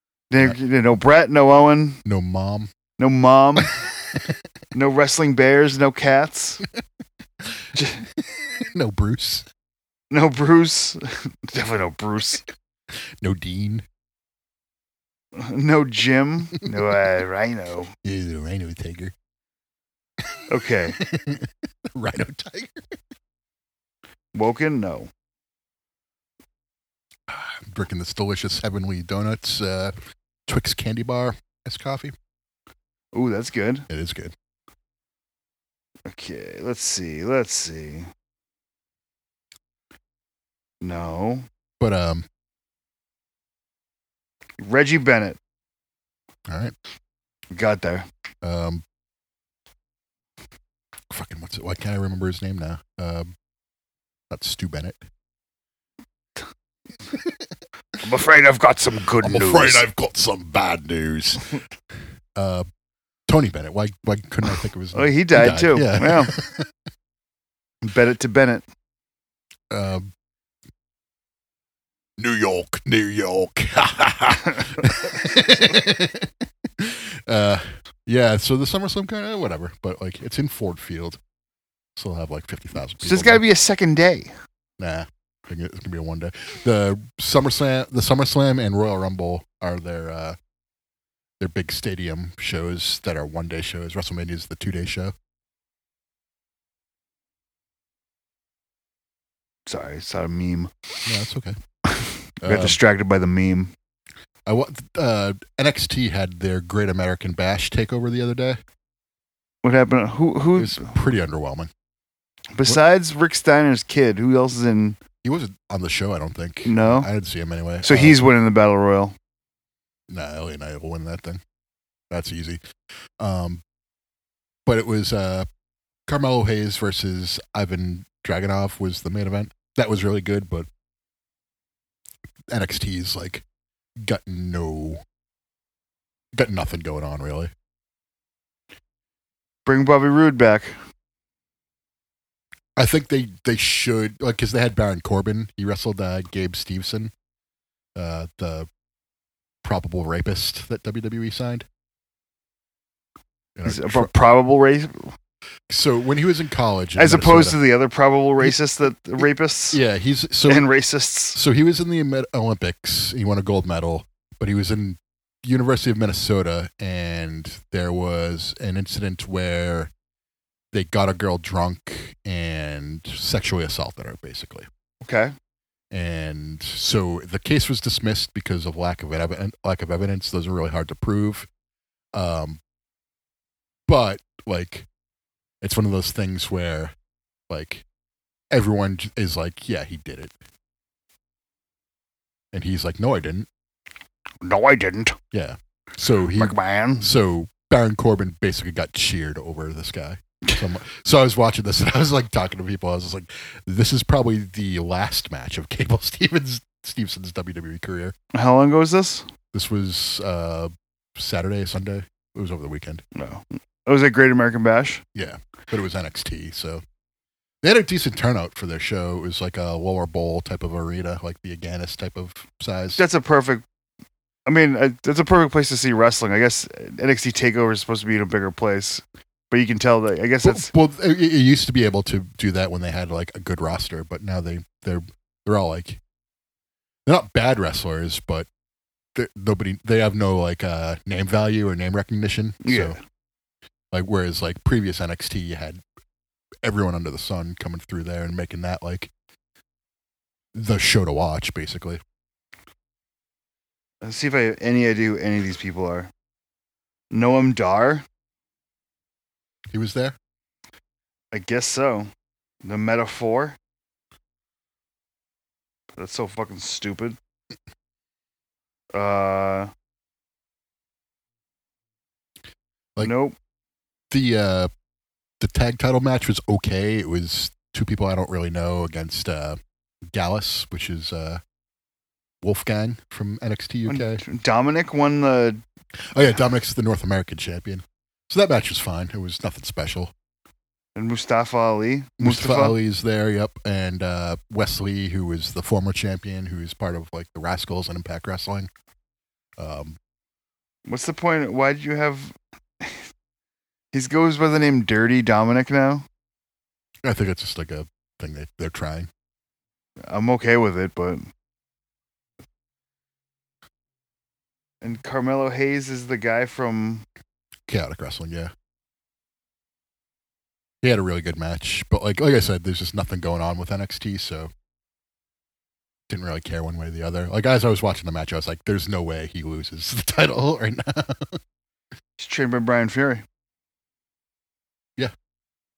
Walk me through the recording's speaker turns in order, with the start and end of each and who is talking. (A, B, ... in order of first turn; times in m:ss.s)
0:00.3-0:02.0 A
0:02.0-0:02.7 B
0:03.0-0:03.8 A
0:04.7-0:06.6 A
0:07.8-0:08.0 A
0:08.2-0:09.5 B
0:10.1-0:12.4 A
0:13.2-0:13.8 B
0:15.4-0:17.9 A
0:18.0-0:19.1 B
0:20.5-0:21.0 A
0:21.0-0:22.9 B
0:24.3-0:25.1 A
0:27.3-0:30.0 B
0:30.5-0:32.1 B
0:33.1-0:33.9 A
0:33.9-0:34.3 B
0:36.1-0:38.1 A
0:40.8-0:41.5 A
0:41.8-0:42.3 B
0:44.6-0:45.4 A
0:46.5-0:46.8 B
0:47.5-0:48.1 A
0:48.4-0:48.8 B
0:51.1-0:53.3 B
0:54.3-0:55.0 B
0:58.0-0:59.9 A
0:59.2-1:01.6 B
1:02.4-1:02.7 B
1:03.3-1:06.7 B
1:04.9-1:06.3 A
1:07.8-1:08.7 A
1:09.7-1:10.1 B
1:12.2-1:21.2 B
1:22.0-1:23.4 B
1:23.0-1:24.3 A
1:24.8-1:30.4 B
1:31.4-1:35.1 B
1:39.7-1:40.7 A
1:41.1-1:41.6 B
1:41.9-1:43.7 A
1:42.4-1:42.8 B
1:44.5-1:48.6 B
1:49.6-1:50.9 A
1:50.6-1:51.7 B
1:52.6-1:55.0 A
1:55.2-1:58.2 B
1:56.6-1:57.1 A
1:57.8-1:59.2 A
2:00.1-2:01.4 B
2:02.1-2:02.6 B
2:03.2-2:03.6 B
2:04.7-2:05.5 B
2:06.1-2:10.7 B
2:12.5-2:13.4 B
2:14.0-2:15.0 B
2:16.3-2:17.5 B
2:19.7-2:20.8 A
2:22.8-2:27.1 B
2:28.0-2:28.7 B
2:29.6-2:31.7 B
2:33.6-2:34.1 B
2:33.6-2:35.1 A
2:35.7-2:37.6 B
2:37.0-2:39.8 A
2:39.7-2:40.7 B
2:40.5-2:41.4 A
2:41.4-2:49.9 B
2:50.7-2:54.7 B
2:55.0-2:55.3 A
2:55.9-3:01.5 B
3:02.1-3:02.6 B
3:03.9-3:04.9 B
3:05.6-3:07.0 B
3:07.5-3:07.8 B
3:08.5-3:10.4 B
3:12.5-3:13.5 B
3:14.4-3:15.2 A
3:15.3-3:28.2 B
3:16.4-3:17.1 A
3:28.3-3:29.3 A
3:29.5-3:33.0 B
3:33.2-3:35.0 A
3:35.2-3:36.8 B
3:37.6-3:43.0 B
3:43.0-3:43.6 A
3:44.5-3:50.7 A
3:50.4-3:56.0 B
3:57.1-3:58.5 B
3:59.2-4:03.0 B
4:02.6-4:03.0 A
4:03.9-4:05.8 B
4:06.6-4:09.1 B
4:10.5-4:12.0 B
4:14.0-4:16.1 A
4:17.1-4:18.0 A
4:19.7-4:20.2 B
4:21.3-4:22.1 A
4:22.6-4:23.6 A
4:26.0-4:27.2 A
4:28.9-4:29.7 A
4:33.0-4:33.4 A
4:34.1-4:34.7 B
4:35.4-4:41.4 B
4:42.4-4:44.2 B
4:43.9-4:45.6 A
4:46.1-4:50.1 B
4:51.0-4:52.8 A
4:52.2-4:58.7 B
4:59.6-5:00.0 B
5:00.9-5:03.1 A
5:03.9-5:06.1 A
5:07.0-5:09.1 B
5:10.1-5:11.3 A
5:14.8-5:17.1 A
5:17.7-5:18.5 B
5:20.8-5:24.5 B
5:26.1-5:31.4 B
5:32.2-5:33.2 A